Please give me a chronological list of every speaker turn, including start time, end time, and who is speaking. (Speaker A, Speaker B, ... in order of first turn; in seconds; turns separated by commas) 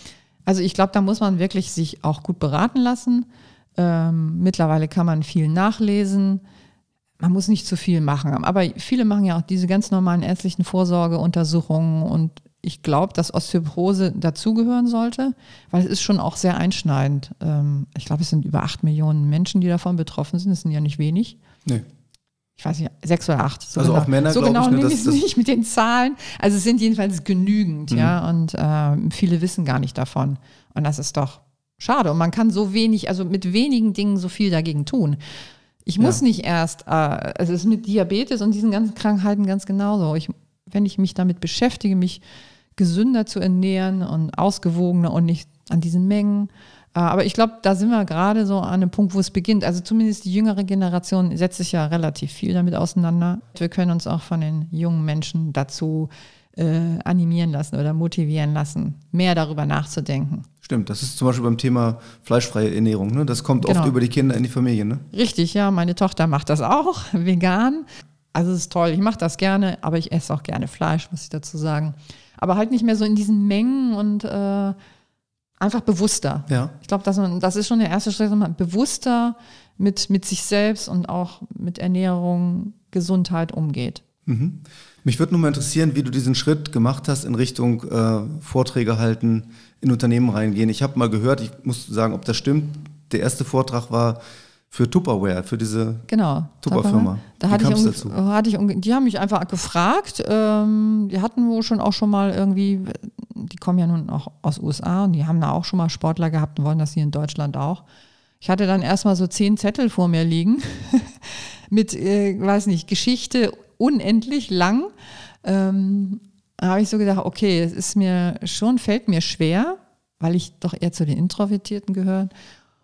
Speaker A: 0.5-6.4, Speaker A: 7.2-21.4, Speaker A: 22.6-35.2, Speaker B: 23.8-25.2, Speaker A: 35.9-42.2, Speaker A: 42.8-60.5, Speaker B: 60.6-65.0, Speaker A: 63.6-63.9, Speaker A: 65.1-74.8, Speaker A: 75.6-84.0, Speaker B: 76.5-76.7, Speaker B: 84.2-96.1, Speaker A: 96.1-107.8, Speaker B: 96.6-98.1, Speaker A: 108.4-114.9, Speaker A: 115.4-122.3